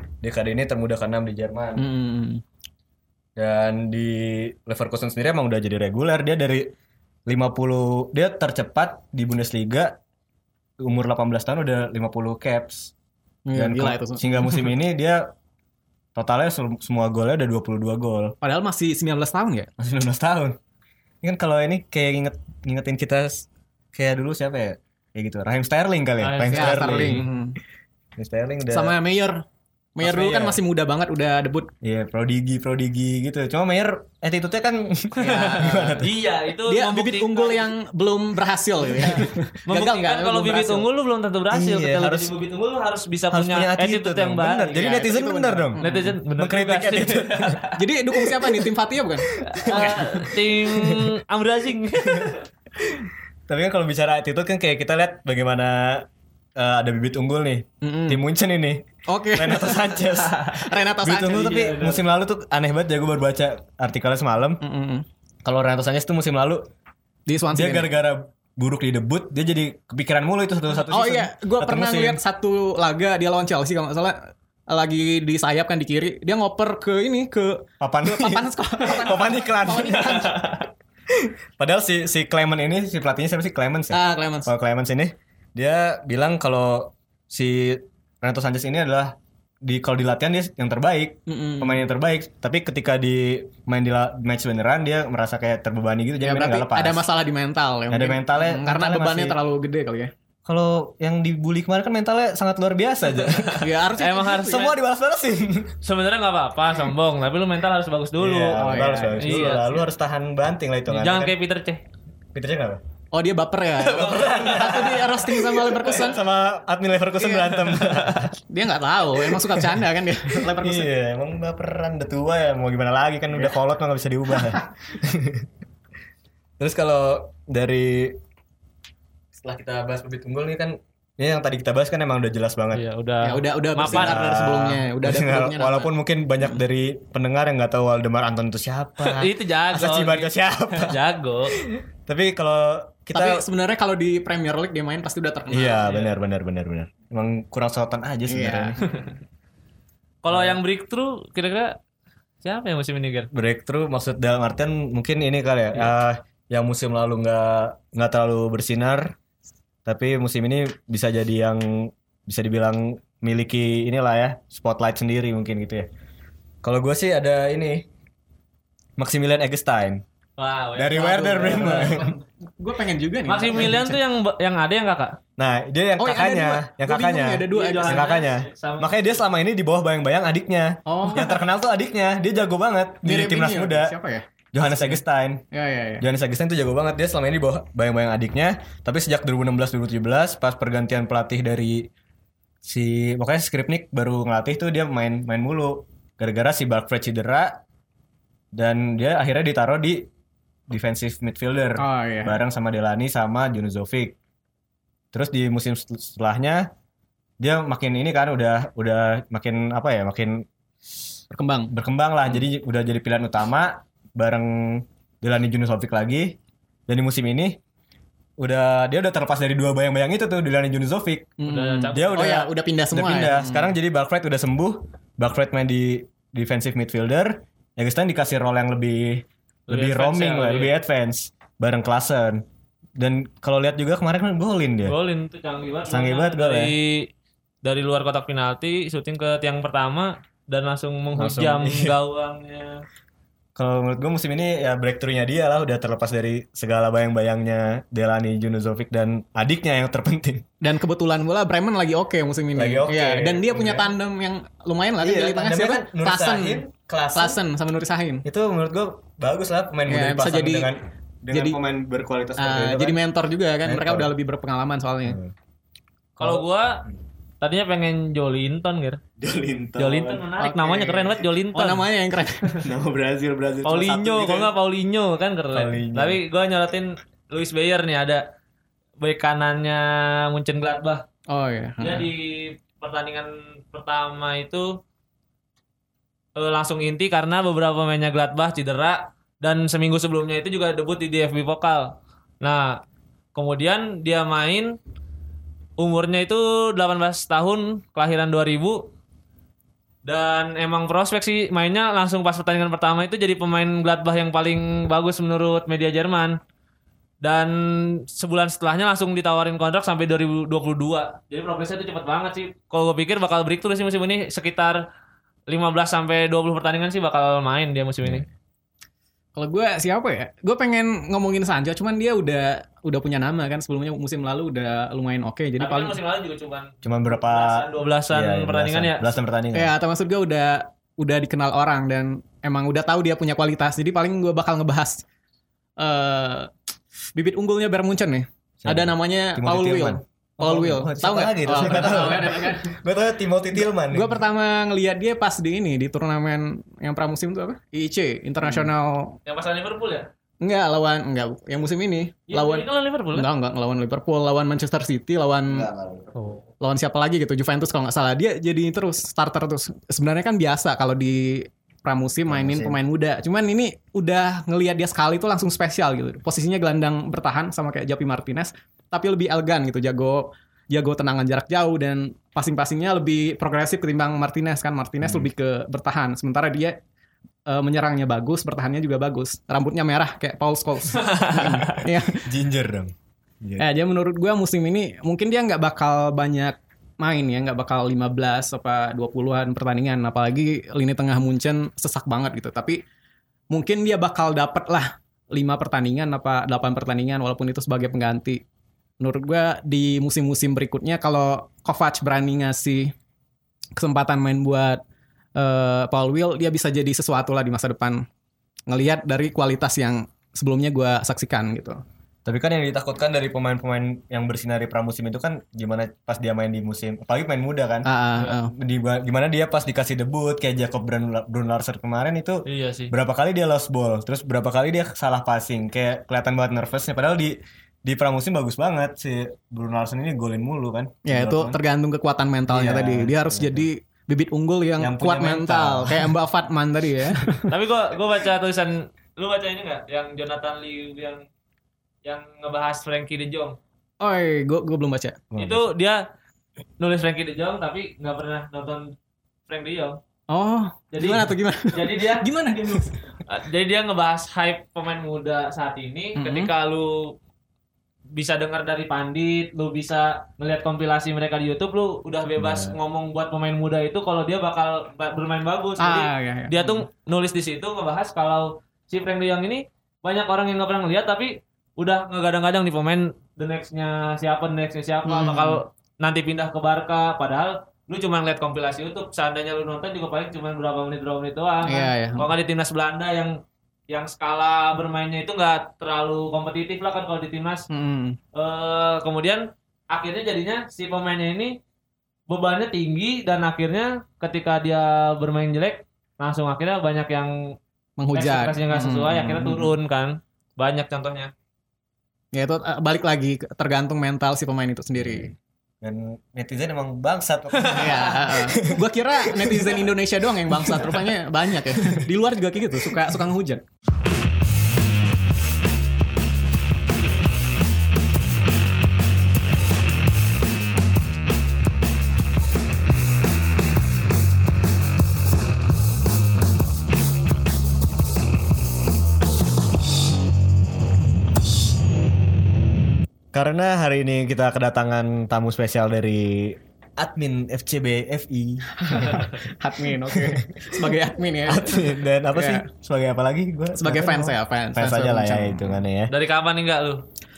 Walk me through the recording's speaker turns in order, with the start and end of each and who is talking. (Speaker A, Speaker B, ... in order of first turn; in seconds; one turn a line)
Speaker A: 0.2-1.9
Speaker B: 1.8-2.4
Speaker A: 3.4-6.7
Speaker A: 7.3-10.0
Speaker A: 10.8-12.9
Speaker B: 13.5-14.7
Speaker A: 13.5-15.3
Speaker A: 16.1-18.4
Speaker B: 18.4-19.7
Speaker A: 19.8-20.6
Speaker A: 21.2-27.3
Speaker C: 26.2-27.2
Speaker B: 26.5-27.6
Speaker A: 28.1-28.9
Speaker B: 28.7-29.4
Speaker B: 29.9-31.7
Speaker A: 30.0-30.6
Speaker A: 31.8-36.1
Speaker B: 35.2-36.0
Speaker C: 35.3-37.7
Speaker B: 36.6-40.9
Speaker C: 39.0-44.9
Speaker A: 41.5-42.4
Speaker A: 43.3-48.7
Speaker B: 44.7-46.1
Speaker C: 45.8-47.8
Speaker B: 47.7-50.3
Speaker A: 49.2-51.2
Speaker C: 49.5-52.5
Speaker A: 52.0-64.6
Speaker B: 57.8-58.2
Speaker B: 59.1-61.7
Speaker C: 60.2-60.5
Speaker C: 61.4-62.0
Speaker B: 64.6-65.0
Speaker A: 65.4-66.6
Speaker B: 67.3-67.9
Speaker A: 67.5-72.2
Speaker B: 70.8-80.4
Speaker A: 77.8-97.0
Speaker B: 83.9-84.5
Speaker B: 91.3-91.8
Speaker B: 96.2-100.1
Speaker A: 97.9-99.4
Speaker A: 100.4-103.7
Speaker C: 103.2-104.7
Speaker B: 103.6-104.7
Speaker A: 104.4-105.8
Speaker C: 105.8-108.6
Speaker A: 108.2-111.3
Speaker B: 108.6-109.6
Speaker C: 109.2-109.8
Speaker C: 110.9-111.8
Speaker A: 112.3-112.8
Speaker B: 113.1-116.2
Speaker A: 113.8-118.3
Speaker C: 113.9-115.0
Speaker B: 117.2-117.6
Speaker C: 117.7-118.3
Speaker B: 118.5-120.9
Speaker A: 119.2-125.5
Speaker A: 126.6-128.2
Speaker A: 129.3-132.8
Speaker C: 132.7-134.4
Speaker B: 133.2-135.9
Speaker A: 133.9-143.4
Speaker C: 139.0-141.6
Speaker B: 143.1-146.1
Speaker A: 145.5-148.8
Speaker B: 148.3-148.8
Speaker C: 148.8-149.1
Speaker C: 150.2-151.8
Speaker A: 150.3-150.6
Speaker C: 152.4-153.3
Speaker A: 153.3-159.1
Speaker A: 159.9-165.9
Speaker A: 166.6-167.9
Speaker A: 169.0-170.0
Speaker C: 170.4-172.1
Speaker A: 170.8-172.2
Speaker B: 170.9-174.0
Speaker C: 173.2-175.2
Speaker A: 175.4-183.9
Speaker B: 176.0-178.1
Speaker C: 177.5-179.0
Speaker B: 180.9-181.4
Speaker B: 183.0-185.0
Speaker A: 184.5-185.4
Speaker B: 185.5-186.1
Speaker A: 186.0-191.9
Speaker A: 192.6-197.6
Speaker A: 198.5-200.1
Speaker A: 200.7-204.2
Speaker B: 201.8-202.4
Speaker A: 205.1-206.7
Speaker A: 207.4-210.5
Speaker B: 211.3-211.7
Speaker A: 211.7-216.4
Speaker A: 216.9-217.6
Speaker A: 218.4-221.4
Speaker B: 221.4-223.7
Speaker C: 221.5-222.3
Speaker A: 221.9-232.4
Speaker C: 229.7-230.7
Speaker A: 233.0-234.9
Speaker C: 234.8-237.1
Speaker A: 235.9-236.7
Speaker C: 237.6-242.8
Speaker A: 241.1-242.0
Speaker A: 243.6-250.4
Speaker B: 250.6-256.6
Speaker A: 252.6-253.9
Speaker A: 255.0-257.4
Speaker B: 257.1-258.2
Speaker A: 258.2-263.0
Speaker B: 259.9-260.7
Speaker B: 261.3-261.6
Speaker B: 262.4-265.2
Speaker A: 263.6-264.1
Speaker A: 265.1-265.3
Speaker C: 266.2-266.8
Speaker A: 266.2-266.5
Speaker C: 267.4-269.0
Speaker A: 269.2-270.3
Speaker C: 269.8-271.9
Speaker B: 270.4-272.6
Speaker A: 272.6-274.5
Speaker C: 273.6-278.2
Speaker A: 275.5-276.2
Speaker C: 279.0-281.0
Speaker B: 281.3-282.1
Speaker C: 281.8-284.8
Speaker C: 286.4-292.8
Speaker C: 293.4-294.8
Speaker C: 295.8-298.9
Speaker C: 300.1-306.4
Speaker C: 307.2-314.9
Speaker C: 315.5-318.2
Speaker B: 319.4-326.0
Speaker C: 325.6-329.1
Speaker A: 326.8-329.7
Speaker B: 329.5-335.1
Speaker B: 335.8-336.5
Speaker B: 337.1-342.8
Speaker A: 338.6-344.2
Speaker B: 343.5-349.2
Speaker A: 348.4-348.7
Speaker C: 349.2-350.1
Speaker B: 350.4-355.7
Speaker C: 352.3-353.3
Speaker A: 355.5-356.1
Speaker B: 356.6-376.8
Speaker A: 362.3-362.8
Speaker A: 375.0-375.3
Speaker B: 377.5-382.2
Speaker C: 380.9-381.7
Speaker A: 382.2-383.6
Speaker B: 383.6-392.8
Speaker B: 393.5-398.4
Speaker B: 399.0-402.9
Speaker B: 403.8-404.8
Speaker B: 405.4-408.1
Speaker B: 408.7-411.8
Speaker A: 412.2-431.6
Speaker B: 417.9-418.5
Speaker C: 422.5-422.9
Speaker B: 431.1-437.5
Speaker A: 432.5-433.6
Speaker A: 434.8-436.1
Speaker C: 437.5-441.2
Speaker C: 442.1-443.6
Speaker B: 444.0-445.2
Speaker A: 445.3-445.6
Speaker C: 445.4-446.0
Speaker C: 446.8-448.9
Speaker C: 449.5-450.0
Speaker B: 450.3-453.0
Speaker C: 450.9-452.2
Speaker C: 453.3-457.1
Speaker B: 456.1-456.5
Speaker C: 458.1-483.4
Speaker A: 462.4-462.8
Speaker B: 465.8-466.9
Speaker B: 475.1-475.6
Speaker B: 481.6-482.3
Speaker C: 483.9-487.7
Speaker B: 487.7-488.2
Speaker C: 488.3-491.6
Speaker C: 492.3-497.6
Speaker B: 498.0-499.7
Speaker C: 498.1-501.3
Speaker B: 502.3-505.3
Speaker A: 505.0-505.3
Speaker A: 505.8-509.8
Speaker C: 507.5-508.1
Speaker B: 507.7-513.6
Speaker A: 510.6-511.0
Speaker A: 511.8-512.1
Speaker A: 533.3-539.3
Speaker B: 538.8-542.7
Speaker A: 540.1-540.9
Speaker A: 541.5-546.1
Speaker B: 543.8-545.8
Speaker C: 546.1-547.0